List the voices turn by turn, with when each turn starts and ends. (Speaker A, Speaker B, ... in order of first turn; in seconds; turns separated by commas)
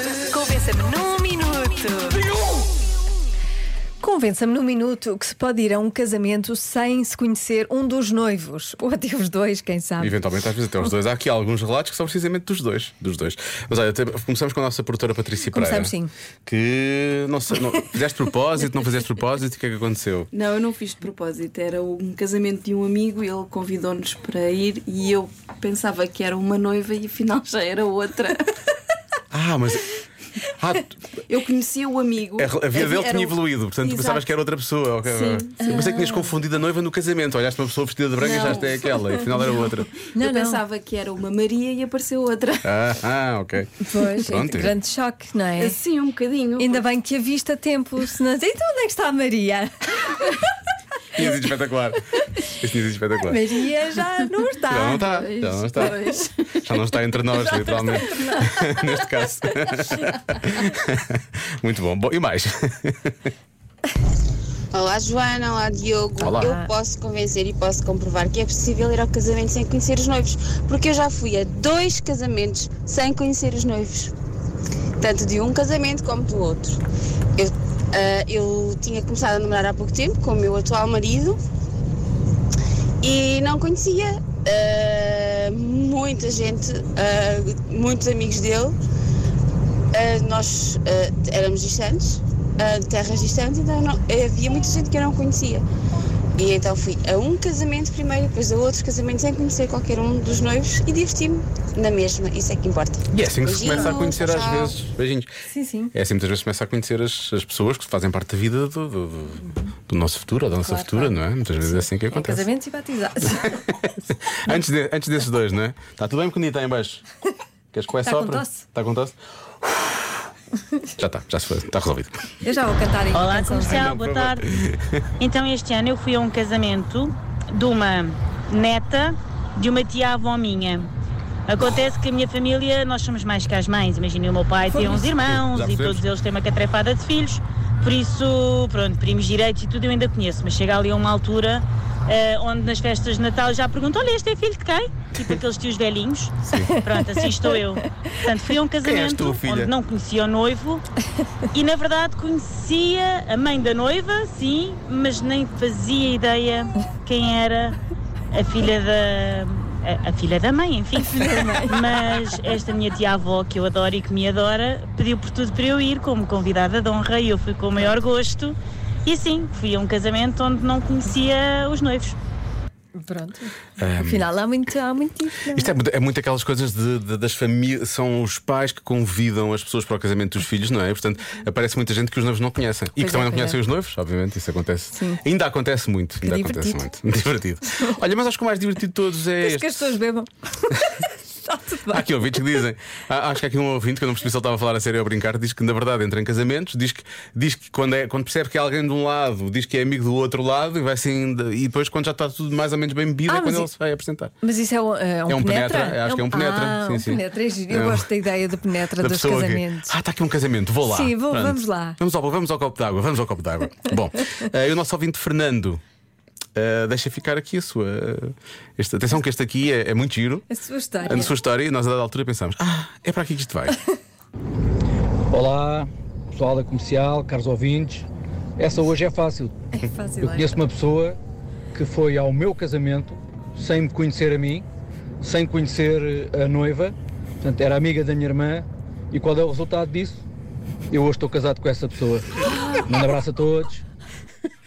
Speaker A: 0.2-2.2, Speaker A: 4.0-10.2, Speaker B: 10.0-15.9, Speaker A: 15.5-16.1, Speaker B: 16.5-20.3, Speaker C: 20.3-28.5, Speaker B: 29.3-30.0, Speaker B: 30.5-31.0, Speaker C: 31.3-34.2, Speaker B: 32.4-40.0, Speaker C: 35.0-35.7, Speaker A: 35.6-36.3, Speaker C: 38.2-38.8, Speaker A: 40.1-40.6, Speaker C: 40.2-42.8, Speaker B: 42.6-44.8, Speaker A: 43.9-45.8, Speaker C: 45.6-46.9, Speaker A: 46.6-50.4, Speaker B: 51.1-53.6, Speaker A: 53.2-55.0, Speaker B: 54.7-56.0, Speaker C: 54.9-56.6, Speaker B: 56.6-63.1, Speaker A: 57.5-58.4, Speaker D: 64.7-74.1, Speaker B: 66.2-66.5, Speaker A: 66.2-66.7, Speaker D: 75.0-76.8, Speaker D: 77.4-81.4, Speaker D: 83.0-88.8, Speaker D: 89.9-95.6, Speaker D: 96.4-104.8, Speaker B: 103.1-105.3, Speaker A: 103.7-104.1, Speaker A: 105.5-105.9, Speaker B: 105.9-112.5, Speaker A: 110.5-113.6, Speaker B: 113.6-117.0, Speaker B: 117.7-120.0, Speaker A: 118.0-118.7, Speaker B: 121.0-122.2, Speaker A: 122.4-123.9, Speaker E: 123.1-124.5, Speaker B: 123.7-125.0, Speaker E: 125.2-130.9, Speaker E: 131.5-150.8, Speaker A: 134.7-135.1, Speaker B: 135.2-136.1, Speaker B: 146.5-146.7, Speaker A: 146.6-147.3, Speaker B: 148.8-149.7, Speaker E: 151.5-157.8, Speaker E: 158.3-172.2, Speaker A: 161.0-161.8, Speaker A: 172.9-175.7, Speaker B: 173.8-174.3, Speaker B: 175.5-189.9, Speaker A: 183.0-183.6, Speaker A: 184.9-185.2, Speaker A: 186.2-186.9, Speaker A: 189.4-192.6, Speaker B: 191.9-204.3, Speaker A: 203.3-203.7, Speaker A: 204.4-209.9, Speaker B: 205.3-208.1, Speaker B: 209.0-215.8, Speaker A: 210.8-212.0, Speaker B: 216.6-220.4, Speaker A: 220.5-221.3, Speaker B: 221.0-223.8, Speaker F: 225.3-228.1, Speaker F: 228.6-229.6, Speaker A: 229.7-230.7, Speaker F: 230.2-231.2, Speaker F: 231.7-234.7, Speaker F: 235.2-240.2, Speaker F: 240.9-243.8